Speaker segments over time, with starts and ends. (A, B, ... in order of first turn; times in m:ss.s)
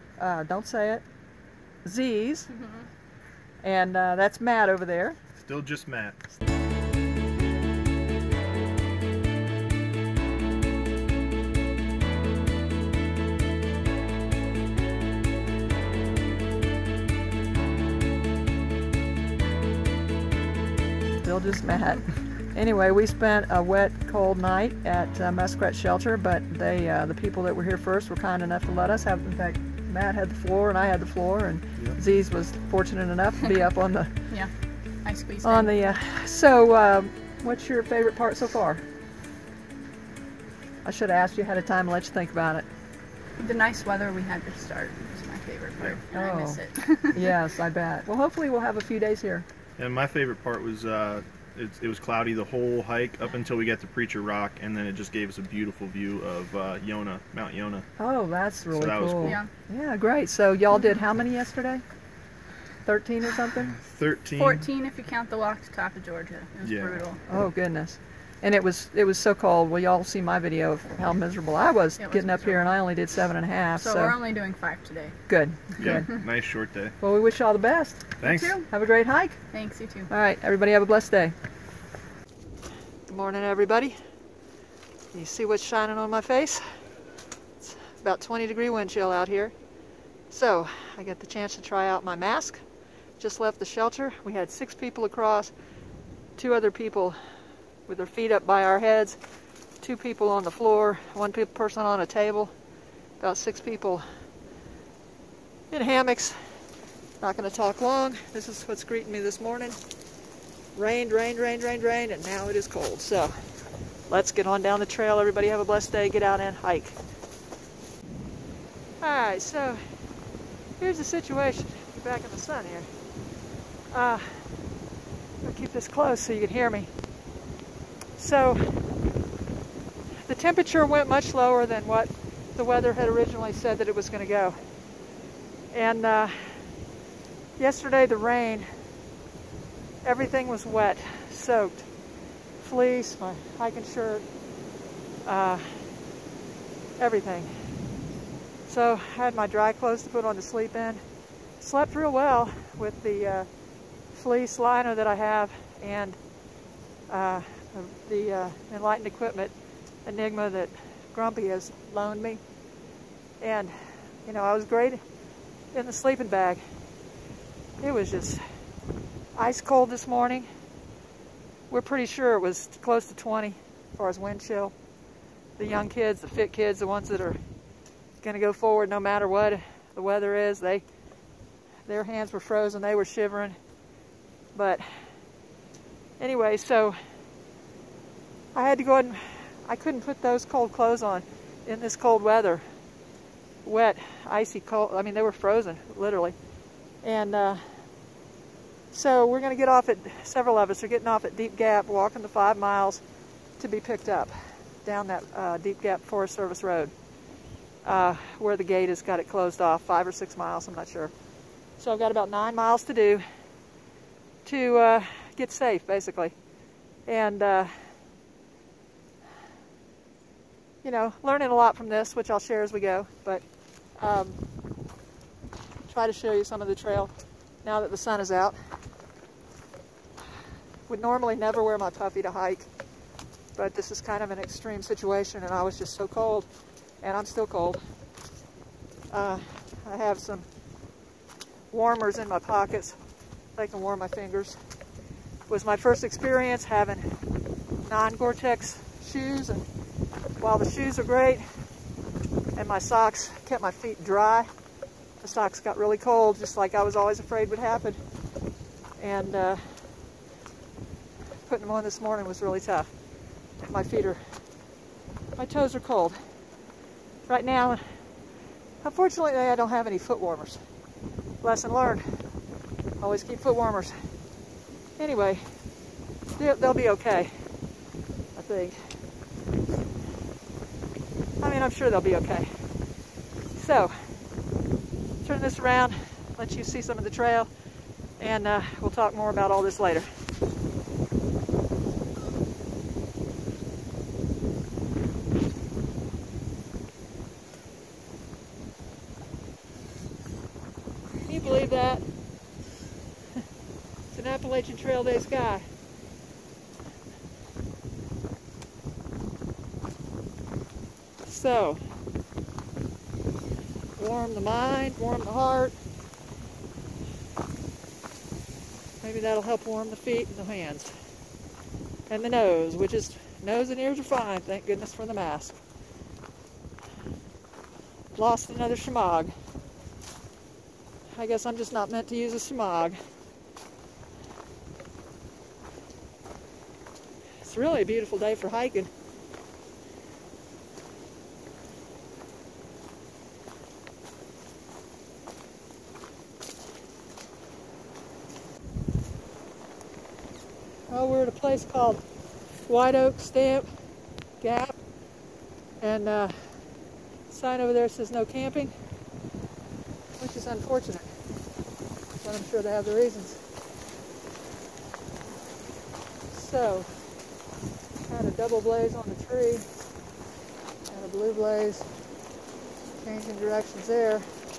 0:00.2-0:01.0 A
0:01.8-0:02.6 A
0:03.6-0:05.2 A
0:05.4-0:06.3 B
0:21.2-0:34.1 A
0:35.0-0:36.0 C
0:35.4-0:38.8 A
0:40.8-0:42.7 A
0:43.4-0:47.2 C
0:46.1-0:49.4 A
0:49.8-0:57.8 B
0:58.0-1:01.8 A
0:58.7-0:59.4 B
0:59.2-0:59.5 C
1:02.8-1:03.8 A
1:03.8-1:04.7 B
1:04.4-1:07.2 C
1:06.6-1:07.0 B
1:07.3-1:14.2 A
1:12.0-1:12.7 C
1:13.8-1:15.2 C
1:15.3-1:16.2 A
1:15.8-1:16.9 B
1:17.0-1:18.0 A
1:18.2-1:18.6 B
1:18.2-1:18.7 C
1:18.7-1:19.4 A
1:19.5-1:20.1 C
1:20.1-1:21.3 A
1:23.1-1:23.9 A
1:25.1-1:26.6 A
1:27.6-1:29.5 A
1:30.3-1:32.6 A
1:33.2-1:35.5 A
1:36.4-1:37.2 A
1:37.9-1:39.2 A
1:39.8-1:42.5 A
1:43.2-1:44.0 A
1:45.7-1:46.4 A
1:47.2-1:49.8 A
1:50.7-1:53.3 A
1:54.1-1:57.0 A
1:59.0-1:59.8 A
2:00.8-2:02.9 A
2:03.9-2:04.5 A
2:05.4-2:06.9 A
2:08.2-2:08.6 A
2:10.2-2:14.5 A
2:15.7-2:16.6 A
2:17.6-2:18.7 A
2:20.0-2:21.9 A
2:22.6-2:24.2 A
2:25.2-2:25.8 A
2:27.0-2:27.5 A
2:28.6-2:31.0 A
2:31.6-2:33.5 A
2:34.1-2:36.2 A
2:37.1-2:39.5 A
2:40.0-2:42.4 A
2:43.4-2:43.7 A
2:44.2-2:45.0 A
2:45.7-2:46.6 A
2:47.8-2:48.4 A
2:49.3-2:50.5 A
2:51.7-2:54.7 A
2:55.6-2:57.4 A
2:58.2-3:00.8 A
3:01.8-3:03.6 A
3:04.5-3:04.8 A
3:06.2-3:07.0 A
3:08.5-3:12.6 A
3:13.6-3:16.4 A
3:17.0-3:17.8 A
3:18.9-3:23.0 A
3:23.6-3:26.9 A
3:27.8-3:31.1 A
3:31.8-3:33.2 A
3:34.4-3:36.3 A
3:37.1-3:37.7 A
3:40.8-3:43.4 A
3:44.0-3:44.4 A
3:45.8-3:47.1 A
3:47.6-3:48.6 A
3:50.9-3:52.7 A
3:53.6-3:56.5 A
3:57.0-3:57.8 A
3:59.1-4:00.5 A
4:01.7-4:03.0 A
4:03.6-4:04.6 A
4:05.5-4:07.0 A
4:07.8-4:09.6 A
4:10.4-4:11.5 A
4:12.6-4:14.5 A
4:15.2-4:18.0 A
4:19.0-4:19.6 A
4:21.5-4:22.9 A
4:23.6-4:24.2 A
4:25.4-4:26.2 A
4:27.2-4:27.8 A
4:28.8-4:30.6 A
4:31.4-4:32.0 A
4:33.0-4:33.9 A
4:35.0-4:35.4 A
4:36.4-4:37.3 A
4:38.3-4:38.8 A
4:41.4-4:42.5 A
4:43.5-4:43.9 A
4:45.2-4:47.5 A
4:48.2-4:50.1 A
5:01.2-5:02.0 A
5:04.1-5:05.6 A
5:11.2-5:11.8 A
5:14.0-5:15.8 A
5:19.0-5:20.9 A
5:22.1-5:25.6 A
5:28.2-5:29.3 A
5:31.1-5:33.0 A
5:37.4-5:38.9 A
5:50.9-5:52.0 A
5:52.7-5:53.7 A
5:54.4-5:54.7 A
5:55.8-5:56.5 A
5:57.3-5:58.7 A
6:00.2-6:01.1 A
6:02.2-6:03.4 A
6:06.3-6:06.9 A
6:08.0-6:09.6 A
6:10.9-6:11.9 A
6:13.0-6:14.3 A